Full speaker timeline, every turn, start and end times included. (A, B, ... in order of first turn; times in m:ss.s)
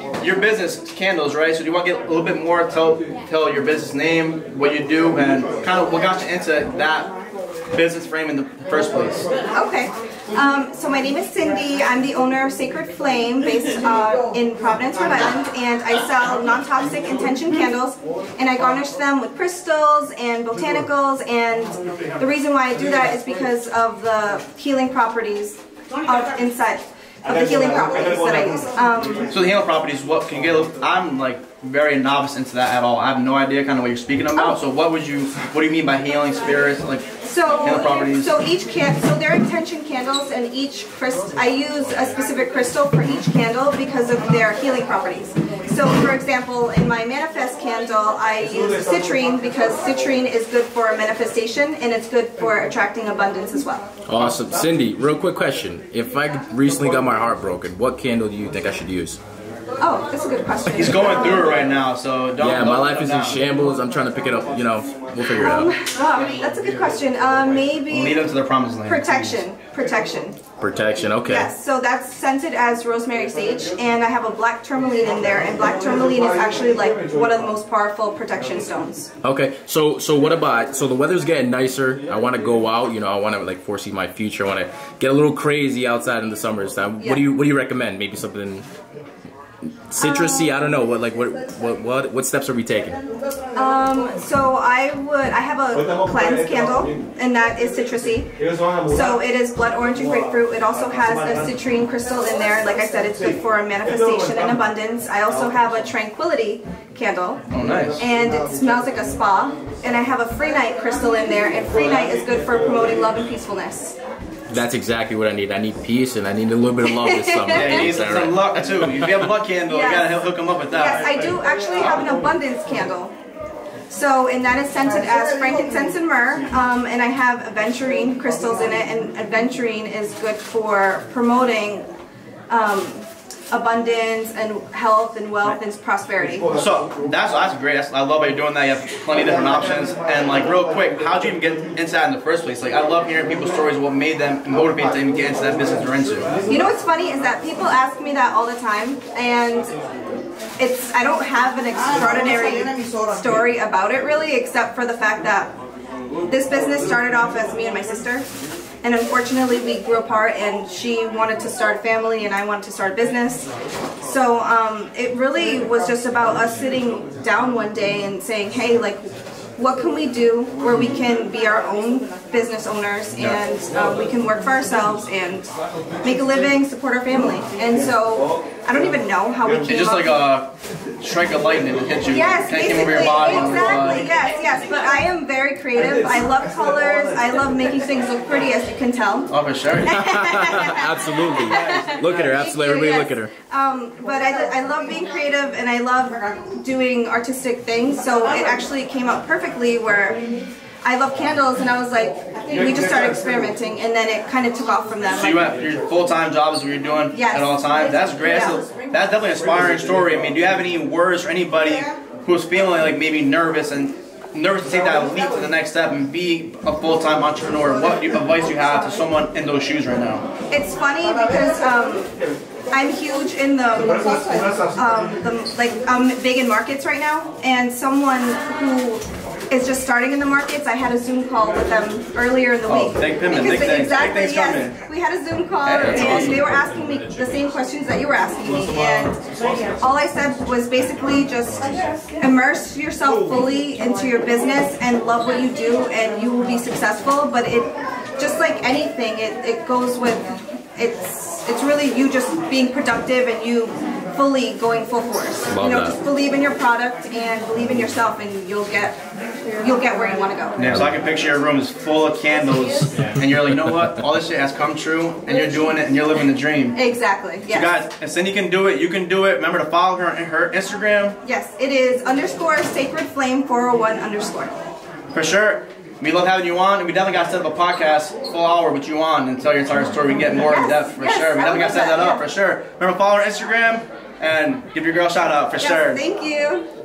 0:00.2-0:07.1 A
0:07.7-0:09.2 A
0:09.5-0:29.3 B
0:29.3-0:38.4 A
0:37.2-0:53.9 B
0:54.1-0:59.2 C
0:59.8-1:01.6 B
1:00.7-1:03.4 A
1:02.4-1:05.7 C
1:05.4-1:08.2 B
1:07.9-1:09.3 A
1:08.9-1:10.4 B
1:10.6-1:11.5 C
1:11.3-1:19.1 B
1:19.2-1:28.7 C
1:29.9-1:33.0 C
1:30.0-1:30.5 B
1:33.6-1:38.3 B
1:38.9-1:47.5 B
1:47.5-1:48.0 A
1:48.0-1:54.0 B
1:54.5-1:58.4 C
1:56.8-1:57.9 B
1:57.5-2:01.3 A
1:59.0-1:59.3 C
1:59.7-2:03.1 B
2:03.9-2:11.9 B
2:12.5-2:16.5 B
2:16.5-2:26.4 A
2:26.5-2:29.7 B
2:30.6-2:35.5 B
2:36.3-2:38.2 B
2:38.8-2:43.5 B
2:44.0-2:55.5 B
2:56.0-3:00.2 B
2:59.7-3:04.1 A
3:02.1-3:09.3 B
3:09.3-3:10.0 A
3:09.8-3:13.3 C
3:09.8-3:20.2 B
3:20.8-3:25.4 B
3:25.1-3:40.3 A
3:27.1-3:27.6 B
3:28.2-3:28.6 B
3:40.5-3:42.1 B
3:42.7-3:59.2 B
3:52.7-3:54.8 A
3:55.6-3:56.4 A
3:55.8-3:57.0 C
3:59.8-4:20.6 B
4:15.5-4:16.0 C
4:20.6-4:26.8 A
4:26.8-4:27.8 B
4:27.5-4:31.2 A
4:31.2-4:34.5 B
4:35.1-4:46.0 A
4:40.4-4:42.2 B
4:45.6-4:46.6 B